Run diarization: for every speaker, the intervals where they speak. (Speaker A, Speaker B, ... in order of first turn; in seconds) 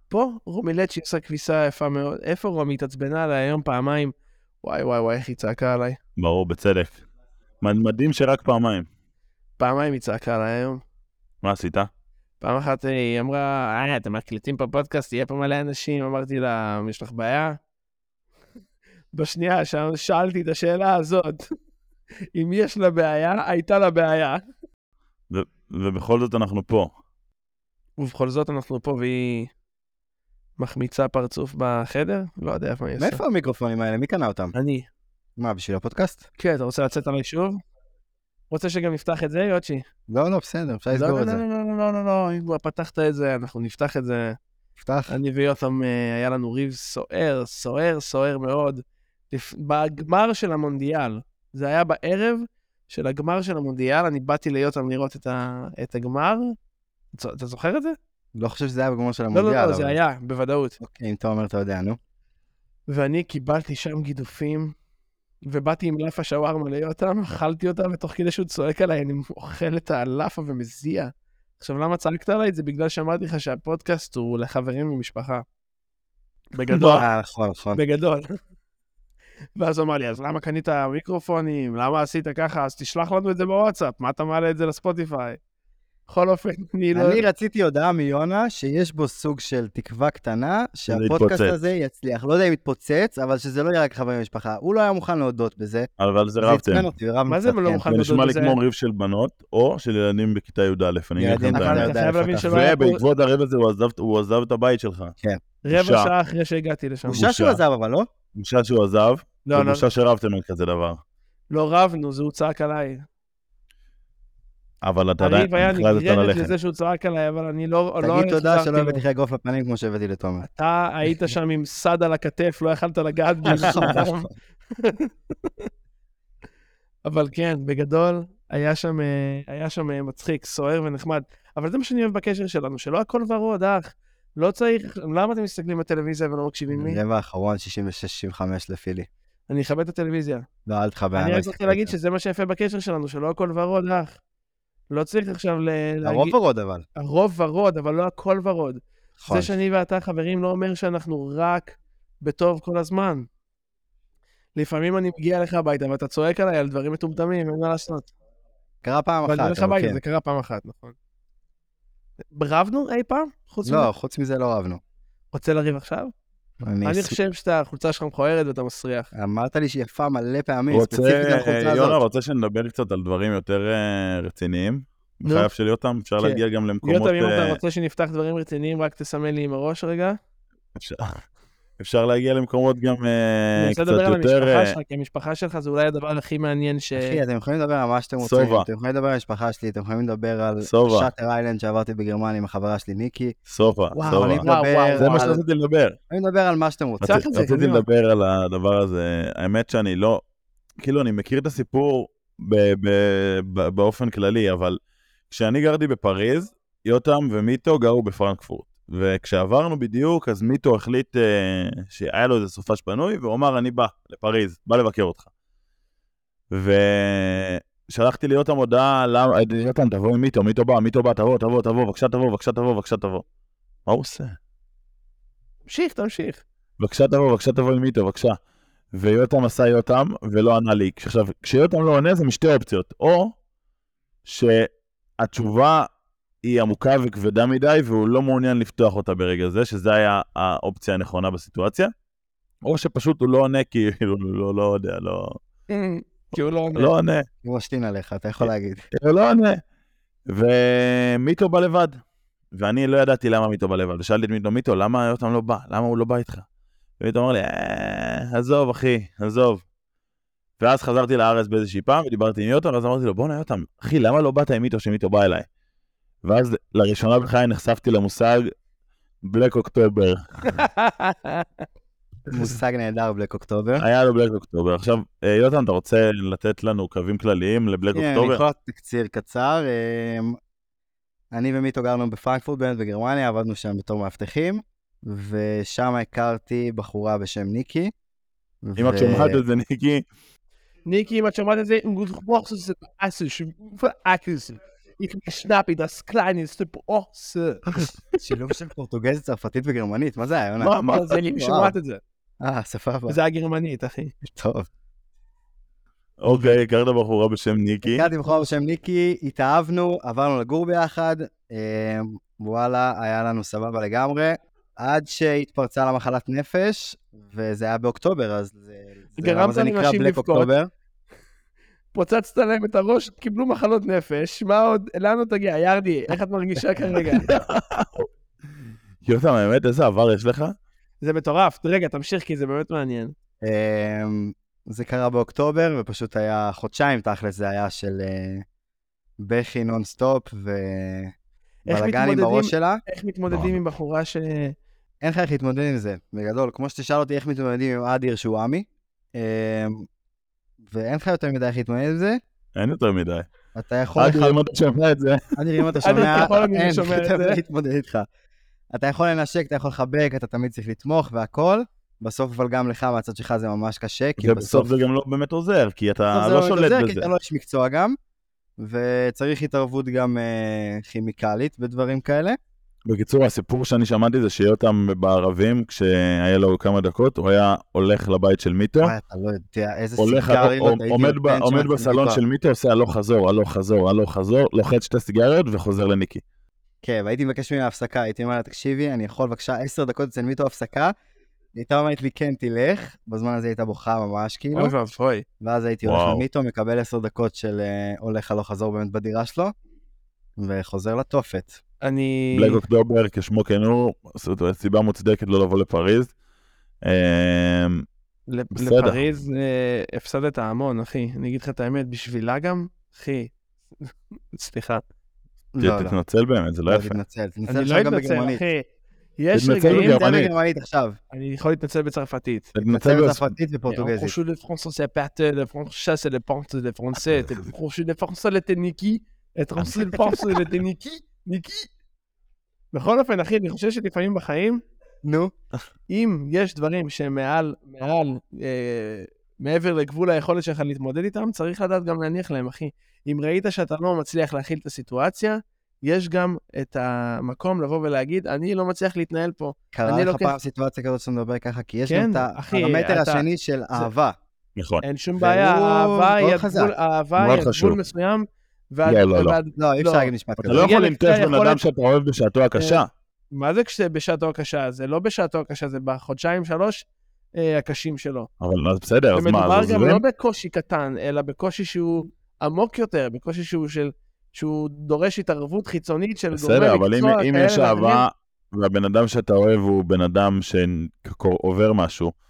Speaker A: 0.1-6.0, 9.6-10.8, 12.4-17.6, 19.1-21.5, 22.4-24.4, 28.0-29.5, 30.6-33.2, 34.5-34.9, 36.4-37.6, 38.5-39.8, 40.9-44.4, 45.1-56.6, 57.1-58.0, 59.3-60.8, 62.9-64.7, 65.5-75.4, 76.5-77.1, 77.8-78.3, 79.6-85.4, 86.1-87.3, 97.3-98.6, 101.5-103.0, 105.7-107.2, 109.5-109.9, 111.5-113.0, 115.2-119.0, 120.4-125.7, 127.0-137.0, 139.5-140.5, 141.2-144.2, 144.9-146.3, 147.0-153.3, 154.6-158.1, 159.3-161.0, 162.3-163.9, 165.3-166.1, 166.8-169.1, 175.2-175.5, 176.2-180.2, 183.6-187.2, 193.9-195.4, 197.1-197.8, 225.7-226.4, 245.7-246.9, 270.6-271.4, 290.9-297.7, 300.8-302.0, 303.1-304.1, 319.2-320.5, 321.9-327.3, 331.0-333.1, 341.7-344.6, 355.8-357.4, 394.5-395.2, 401.8-402.6, 408.3-414.8, 417.5-418.6, 419.2-420.0, 421.1-422.5, 423.7-431.7, 432.7-434.6, 435.9-450.4, 451.9-453.2, 454.8-461.6, 462.6-466.9, 467.4-468.3, 469.1-478.1
Speaker B: 6.2-7.0, 7.6-8.9, 11.4-11.9, 25.3-26.9, 76.7-77.0, 90.9-91.5, 96.0-96.9, 97.8-105.2, 105.7-106.1, 107.1-107.6, 108.3-111.0, 114.8-116.5, 123.5-124.0, 170.7-177.6, 180.8-181.2, 181.8-184.8, 188.2-188.7, 190.6-191.1, 193.5-194.4, 195.0-196.0, 197.0-200.2, 200.8-204.8, 205.3-215.3, 216.5-223.2, 223.9-224.4, 226.8-228.4, 228.9-233.3, 234.2-235.9, 236.4-241.9, 242.6-245.4, 246.7-247.3, 248.4-249.6, 250.3-252.0, 252.5-256.5, 257.0-259.6, 260.6-265.5, 266.2-268.5, 269.2-270.6, 273.8-278.4, 288.8-290.1, 300.6-301.2, 306.2-308.1, 326.9-328.1, 329.0-330.6, 352.6-353.3, 354.0-356.3, 364.2-367.1, 372.9-378.9, 380.0-386.2, 395.9-396.2, 402.4-406.1, 406.8-407.9, 408.6-409.0, 415.6-417.0, 419.3-420.3, 422.6-423.3, 454.6-454.8, 457.2-457.8, 458.9-459.4, 460.4-462.9, 468.4-470.0, 476.3-482.1
Speaker C: 33.0-34.5, 35.4-36.2, 40.1-41.4, 44.8-45.1, 58.4-60.0, 60.8-62.0, 77.0-77.8, 86.9-97.9, 101.2-102.7, 107.1-108.1, 118.0-120.5, 123.5-124.2, 136.7-139.1, 140.7-141.9, 146.0-146.9, 149.2-149.6, 158.8-160.0, 163.7-164.8, 166.6-167.2, 169.1-172.0, 186.9-193.3, 194.1-195.4, 196.1-197.2, 247.4-248.9, 272.3-273.9, 277.9-280.4, 281.3-287.9, 288.6-289.4, 298.2-301.8, 302.4-303.2, 304.2-304.7, 307.8-320.7, 333.4-338.4, 339.2-341.1, 341.7-342.8, 345.0-349.9, 350.6-352.2, 353.6-354.4, 355.4-358.1, 358.7-364.8, 366.1-368.0, 368.6-372.4, 378.8-382.2, 386.8-390.9, 391.6-394.7, 395.4-399.5, 400.4-401.6, 415.5-416.0, 416.7-418.4, 419.6-421.0, 422.6-424.2, 435.0-435.3, 449.7-454.2, 455.2-456.7, 459.6-460.7